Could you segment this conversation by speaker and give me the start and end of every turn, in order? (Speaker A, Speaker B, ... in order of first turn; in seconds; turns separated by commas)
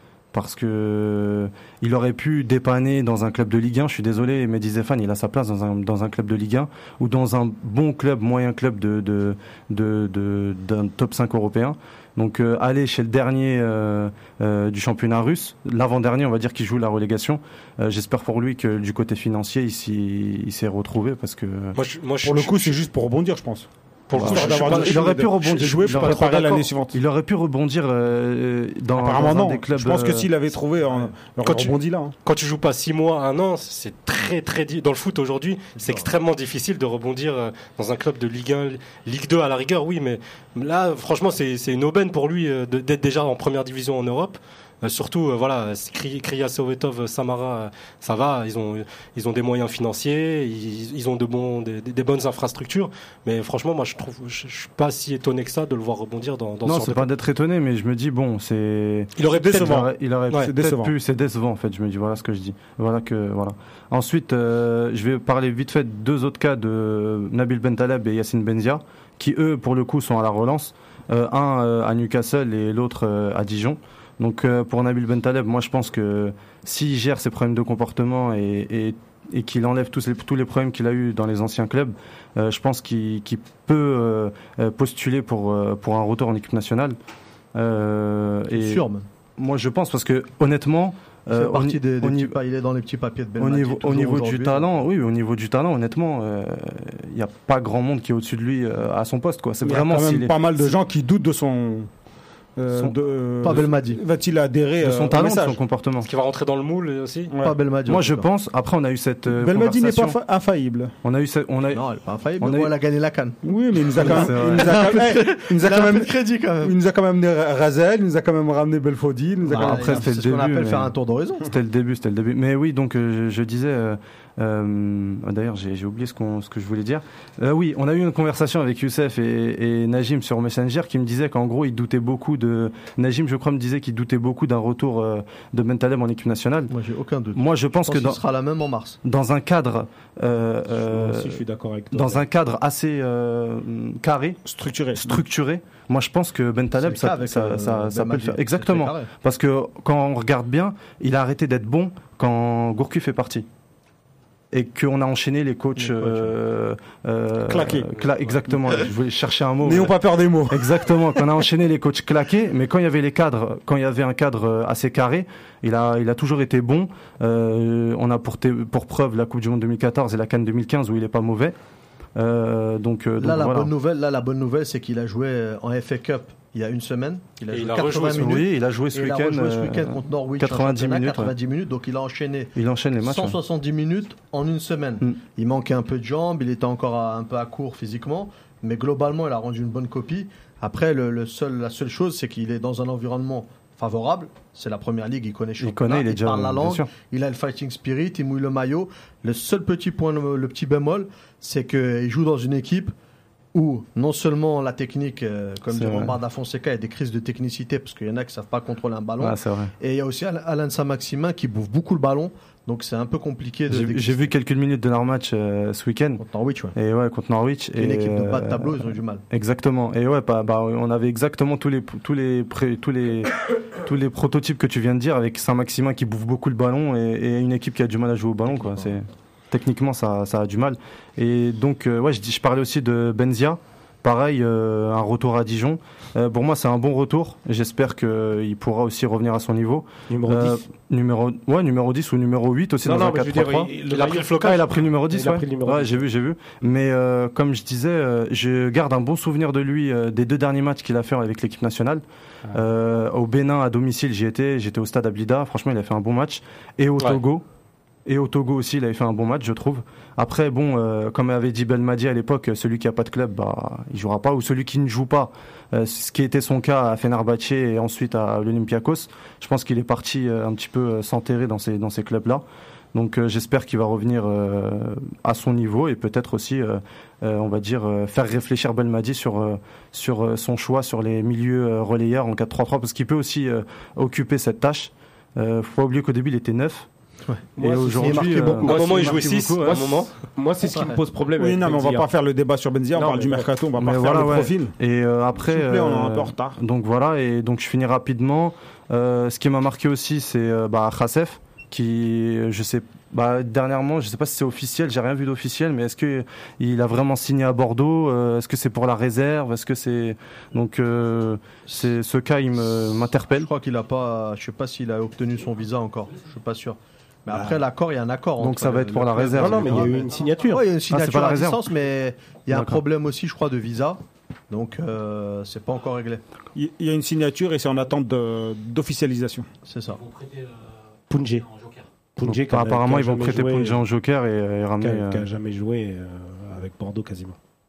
Speaker A: 0.3-21.8, Speaker B: 21.8-22.8, Speaker C: 22.2-27.0, Speaker B: 24.1-25.3, Speaker A: 24.1-30.3, Speaker C: 28.9-32.1, Speaker B: 31.4-57.1, Speaker D: 35.8-36.1, Speaker A: 56.6-87.0, Speaker B: 59.2-59.8, Speaker C: 59.3-60.9, Speaker A: 87.5-88.8, Speaker D: 88.5-89.0, Speaker A: 89.4-92.3, Speaker D: 91.3-94.7, Speaker A: 93.4-100.7, Speaker C: 99.6-101.9, Speaker C: 102.5-105.6, Speaker D: 103.4-104.0, Speaker A: 104.8-106.1, Speaker B: 106.0-107.3, Speaker C: 107.3-107.6, Speaker D: 107.4-108.3, Speaker A: 107.9-110.2, Speaker C: 109.3-110.9, Speaker A: 111.0-111.8, Speaker D: 111.7-116.7, Speaker A: 112.4-112.7, Speaker C: 113.4-120.0, Speaker A: 114.0-114.8, Speaker D: 119.5-121.5, Speaker A: 119.5-136.7, Speaker D: 136.7-139.0, Speaker A: 137.3-138.2, Speaker A: 139.0-141.4, Speaker E: 140.7-142.2, Speaker A: 141.9-144.4, Speaker C: 144.4-145.2, Speaker A: 144.9-153.4, Speaker D: 146.8-149.1, Speaker A: 154.5-160.0, Speaker D: 155.8-156.3, Speaker C: 157.4-157.9, Speaker C: 159.6-161.2, Speaker A: 160.5-171.5, Speaker A: 172.2-173.7, Speaker D: 173.2-202.9, Speaker B: 177.5-178.4, Speaker A: 178.1-181.3, Speaker A: 182.5-183.4, Speaker A: 195.6-196.9, Speaker D: 203.5-214.3, Speaker A: 205.7-206.1, Speaker A: 209.2-209.7, Speaker A: 213.7-216.2, Speaker D: 216.2-216.8, Speaker A: 216.7-243.7, Speaker D: 217.8-219.2, Speaker D: 228.5-228.9, Speaker E: 240.1-240.6, Speaker E: 242.8-246.1, Speaker B: 243.9-244.7, Speaker A: 244.4-257.4, Speaker A: 258.1-286.9, Speaker D: 287.3-288.9, Speaker E: 287.6-292.1, Speaker A: 287.6-289.9, Speaker B: 288.6-290.1, Speaker D: 290.6-291.0, Speaker C: 291.4-294.8, Speaker E: 292.9-293.5, Speaker A: 293.8-313.5, Speaker C: 295.3-296.6, Speaker D: 313.3-326.2, Speaker A: 318.4-320.0, Speaker E: 319.3-320.7, Speaker A: 320.9-321.6, Speaker A: 322.5-322.8, Speaker C: 326.5-329.5, Speaker D: 329.6-330.0, Speaker E: 331.1-331.6, Speaker E: 332.1-333.8, Speaker A: 332.2-335.3, Speaker E: 334.8-337.4